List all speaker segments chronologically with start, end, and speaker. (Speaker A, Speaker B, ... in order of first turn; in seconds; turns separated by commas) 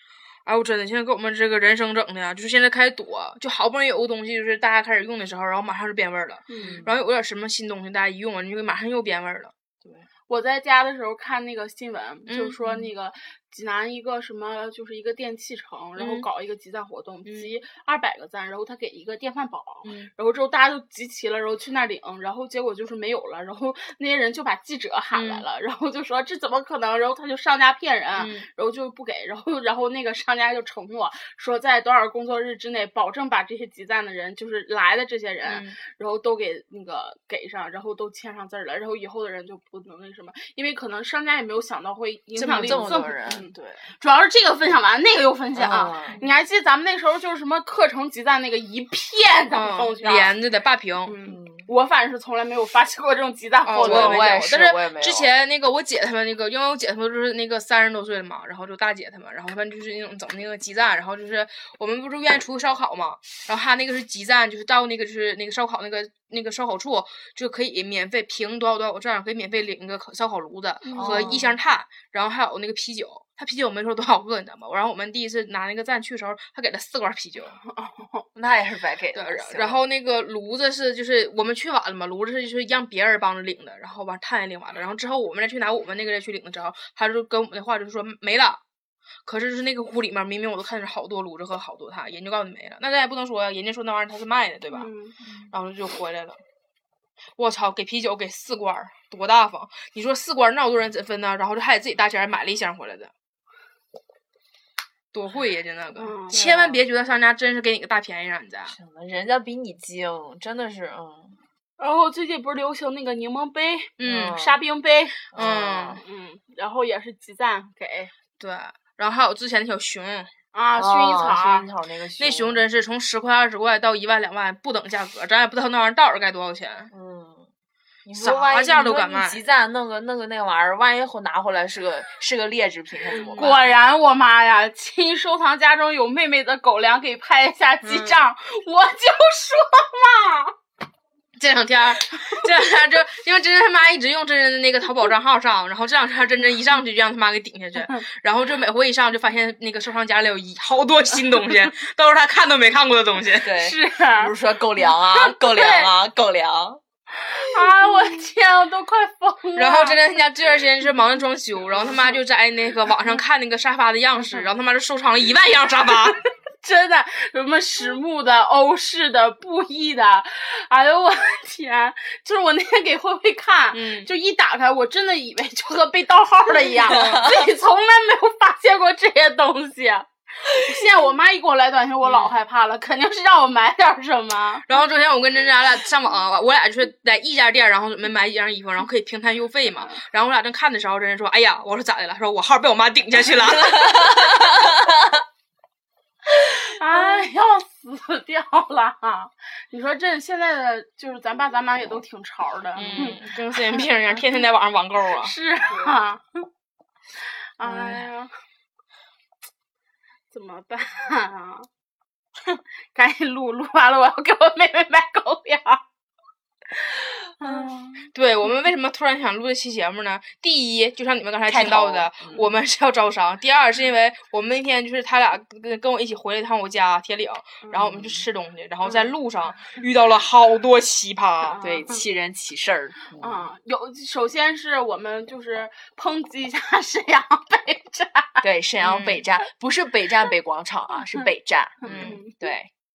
Speaker A: 0.5-9.5, Speaker B: 6.5-6.8, Speaker C: 6.6-7.0, Speaker B: 10.3-50.3, Speaker A: 12.3-12.8, Speaker A: 16.0-16.3, Speaker A: 17.2-17.5, Speaker A: 19.8-20.1, Speaker A: 25.1-25.4, Speaker A: 28.1-28.5, Speaker A: 35.4-35.8, Speaker C: 42.3-43.8, Speaker A: 42.5-42.9, Speaker C: 45.5-46.2, Speaker A: 49.5-51.1, Speaker B: 51.0-54.4, Speaker C: 51.2-51.7, Speaker A: 53.6-77.6, Speaker C: 53.8-55.3, Speaker B: 70.8-71.4, Speaker C: 71.0-71.6, Speaker B: 77.6-78.2, Speaker C: 78.3-79.8, Speaker A: 79.1-88.6, Speaker A: 89.2-94.9, Speaker B: 94.7-95.1, Speaker C: 95.2-95.5, Speaker A: 95.5-96.4, Speaker A: 97.4-103.1, Speaker A: 105.1-108.8, Speaker B: 106.0-106.4, Speaker C: 106.3-106.8, Speaker C: 108.7-111.4, Speaker B: 111.8-115.2, Speaker A: 114.0-114.4, Speaker C: 114.0-114.5, Speaker C: 115.3-116.0, Speaker A: 115.3-116.0, Speaker B: 116.0-118.1, Speaker A: 118.4-120.3, Speaker B: 120.5-121.7, Speaker C: 120.7-122.6, Speaker A: 122.2-126.9, Speaker C: 126.9-127.5, Speaker C: 128.0-133.7, Speaker A: 128.1-129.4, Speaker A: 133.1-133.6, Speaker B: 133.2-140.5, Speaker A: 137.8-138.2, Speaker A: 141.4-153.6, Speaker C: 153.3-156.8, Speaker B: 153.6-154.3, Speaker B: 155.2-155.9, Speaker B: 157.2-160.0, Speaker A: 159.6-166.2, Speaker B: 166.6-184.7, Speaker A: 173.7-174.1, Speaker A: 176.8-177.4, Speaker C: 176.9-177.4, Speaker A: 182.0-182.3, Speaker A: 184.7-194.6, Speaker C: 193.4-195.1, Speaker B: 196.4-203.9, Speaker A: 202.8-205.3, Speaker B: 205.2-206.5, Speaker B: 207.6-208.3, Speaker C: 207.6-208.0, Speaker B: 210.3-211.7, Speaker B: 212.4-215.8, Speaker B: 217.4-218.1, Speaker A: 218.1-231.6, Speaker C: 221.4-222.5, Speaker C: 227.7-228.2, Speaker B: 231.5-231.9, Speaker C: 231.6-233.5, Speaker B: 233.2-238.4, Speaker C: 238.4-242.7, Speaker A: 238.8-239.2, Speaker B: 241.8-242.4, Speaker A: 241.8-242.2